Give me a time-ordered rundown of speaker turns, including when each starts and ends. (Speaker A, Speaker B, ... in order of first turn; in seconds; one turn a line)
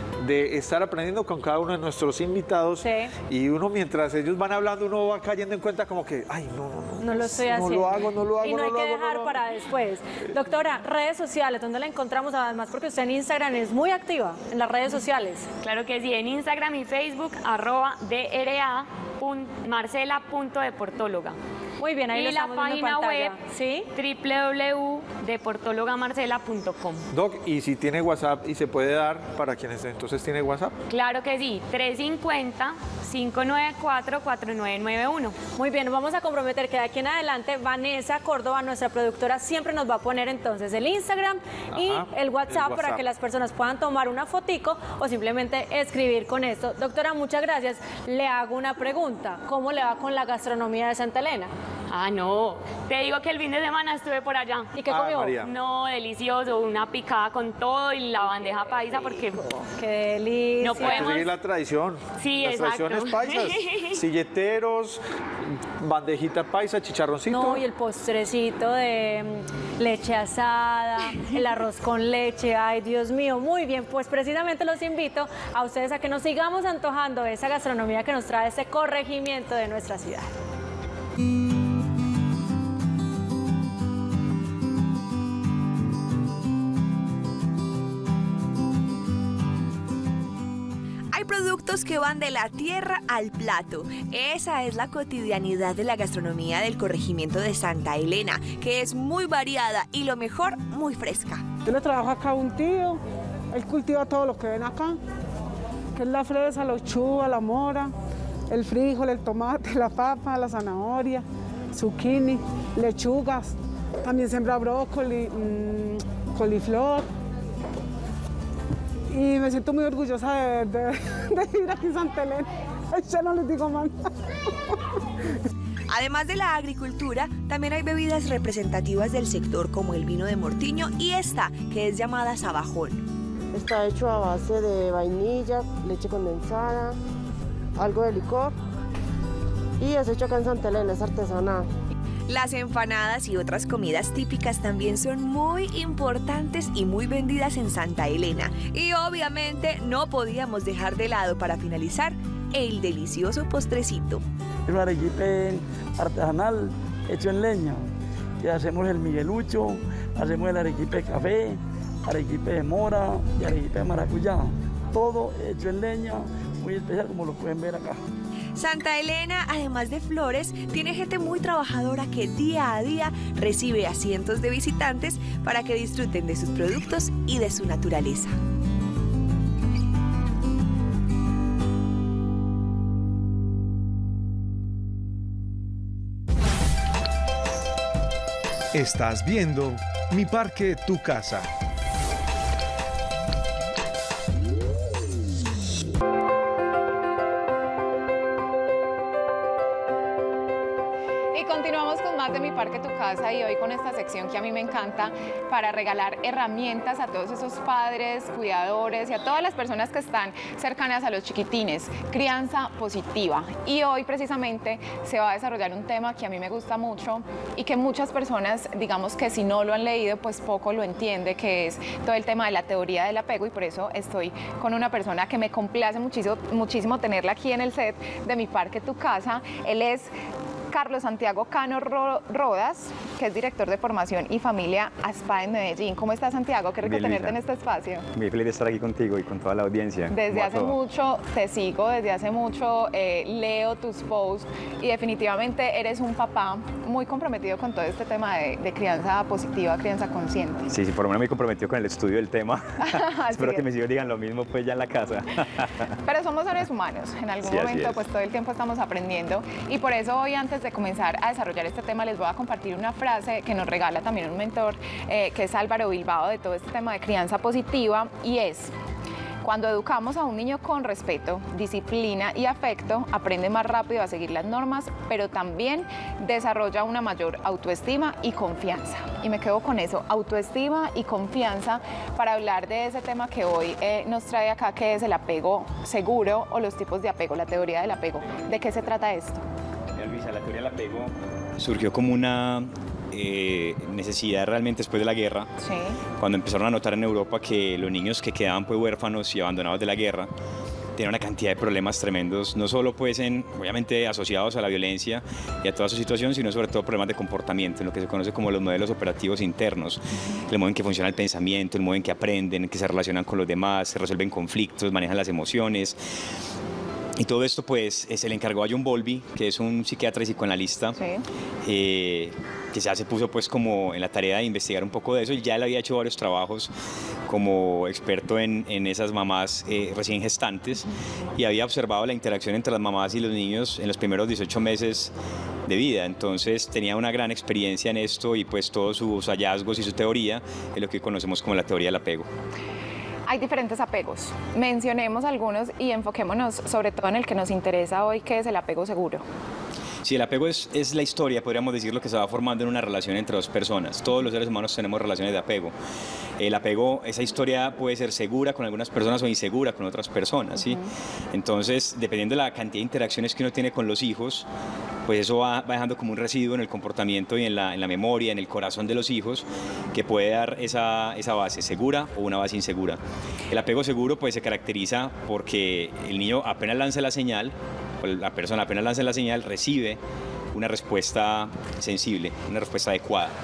Speaker A: 0.2-9.4
Speaker B: 2.8-3.1
Speaker B: 7.0-15.5
Speaker C: 15.6-21.4
Speaker B: 21.8-23.9
Speaker C: 22.1-23.4
Speaker C: 23.9-27.1
Speaker A: 27.1-30.8
Speaker C: 30.9-35.4
Speaker B: 35.5-51.5
Speaker A: 41.7-43.0
Speaker C: 51.9-54.8
Speaker B: 54.8-55.4
Speaker A: 54.8-55.5
Speaker C: 55.4-59.5
Speaker B: 59.7-61.2
Speaker C: 60.6-61.4
Speaker A: 60.7-65.0
Speaker C: 62.2-64.0
Speaker A: 65.6-67.6
Speaker B: 67.3-80.3
Speaker D: 91.1-101.4
Speaker E: 101.6-103.0
Speaker E: 103.5-105.0
Speaker E: 105.9-107.9
Speaker E: 108.5-117.0
Speaker E: 119.1-124.3
Speaker D: 125.9-133.0
Speaker F: 133.5-136.9
Speaker F: 137.8-138.5
Speaker F: 139.8-141.7
Speaker D: 142.3-154.2
Speaker G: 154.7-157.8
Speaker G: 158.4-168.0
Speaker D: 168.5-178.3
Speaker H: 188.7-191.5
Speaker I: 201.3-230.1
Speaker I: 230.7-238.1
Speaker J: 236.8-237.4
Speaker J: 238.1-240.8
Speaker I: 240.1-250.7
Speaker J: 250.7-255.9
Speaker I: 252.8-253.6
Speaker I: 256.0-268.7
Speaker J: 257.4-258.0
Speaker I: 269.4-289.4
Speaker J: 289.9-295.5
Speaker I: 295.6-296.0
Speaker J: 296.2-300.3
Speaker J: 300.9-316.0
Speaker J: 317.2-321.0
Speaker I: 321.0-321.2
Speaker J: 321.6-326.7
Speaker J: 327.3-335.1
Speaker J: 335.6-342.3
Speaker I: 343.3-349.2
Speaker J: 350.0-355.7
Speaker J: 356.4-364.5
Speaker I: 360.6-360.9
Speaker J: 365.1-380.0
Speaker J: 380.5-383.3